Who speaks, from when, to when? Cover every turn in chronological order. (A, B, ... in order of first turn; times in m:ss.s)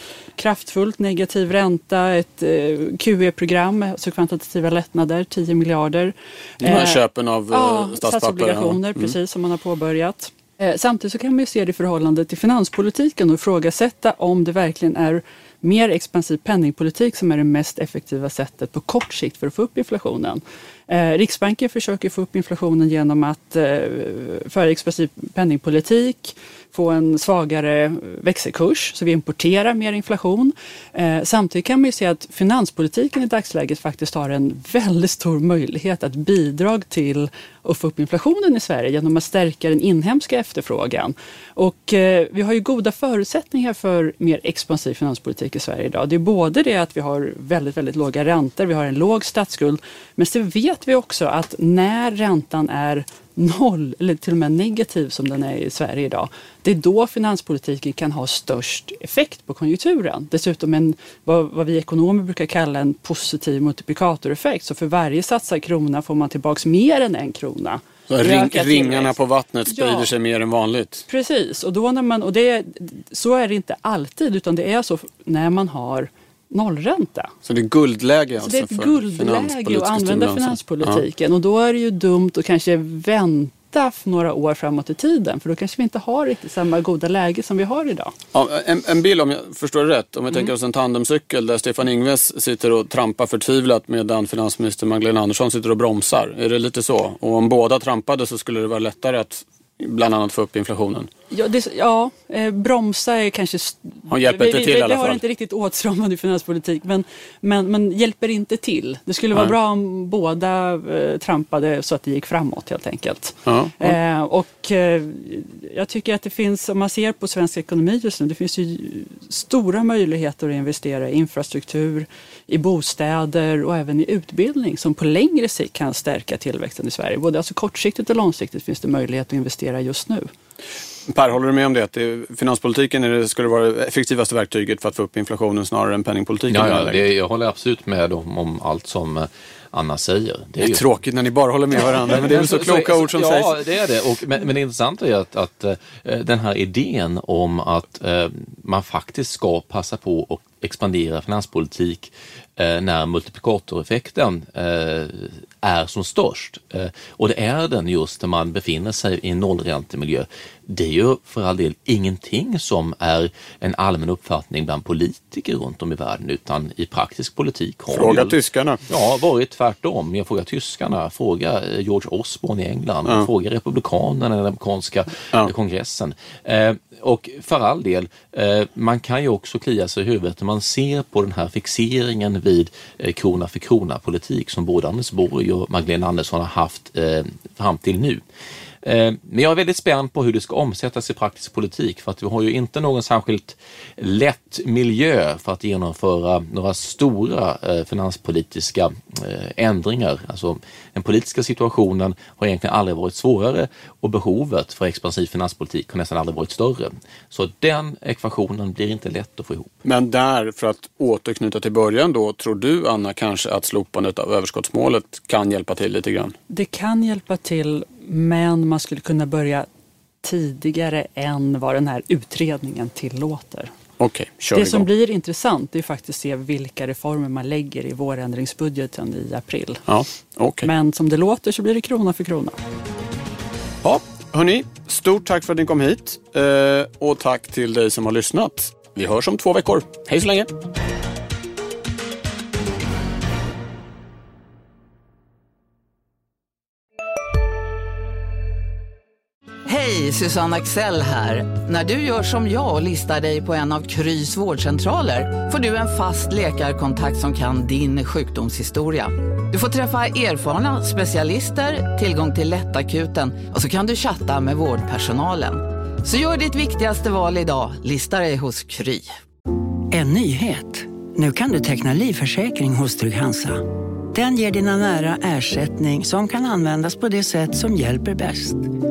0:00.4-0:07.0 A
0:06.6-0:09.1 B
0:07.5-1:10.1 A
1:08.1-1:11.0 B
1:11.1-1:17.3 A
1:17.4-1:21.0 B
1:18.4-1:28.1 A
1:28.3-1:41.1 B
1:41.3-2:10.3 A
1:44.1-1:45.2 B
1:53.4-1:54.0 B
2:11.1-2:17.0 B
2:16.5-2:20.8 C
2:20.6-2:23.5 B
2:21.8-2:48.4 C
2:47.9-2:48.8 B
2:48.9-3:08.2 C
3:08.8-3:29.7 C
3:29.8-3:36.3 B
3:36.5-3:39.7 A
3:40.2-3:43.7 A
3:44.0-3:44.9 B
3:44.5-3:49.8 A
3:49.9-3:50.7 B
3:50.6-3:52.6 A
3:53.8-4:00.5 B
4:09.6-4:29.2 D
4:29.9-4:38.7 E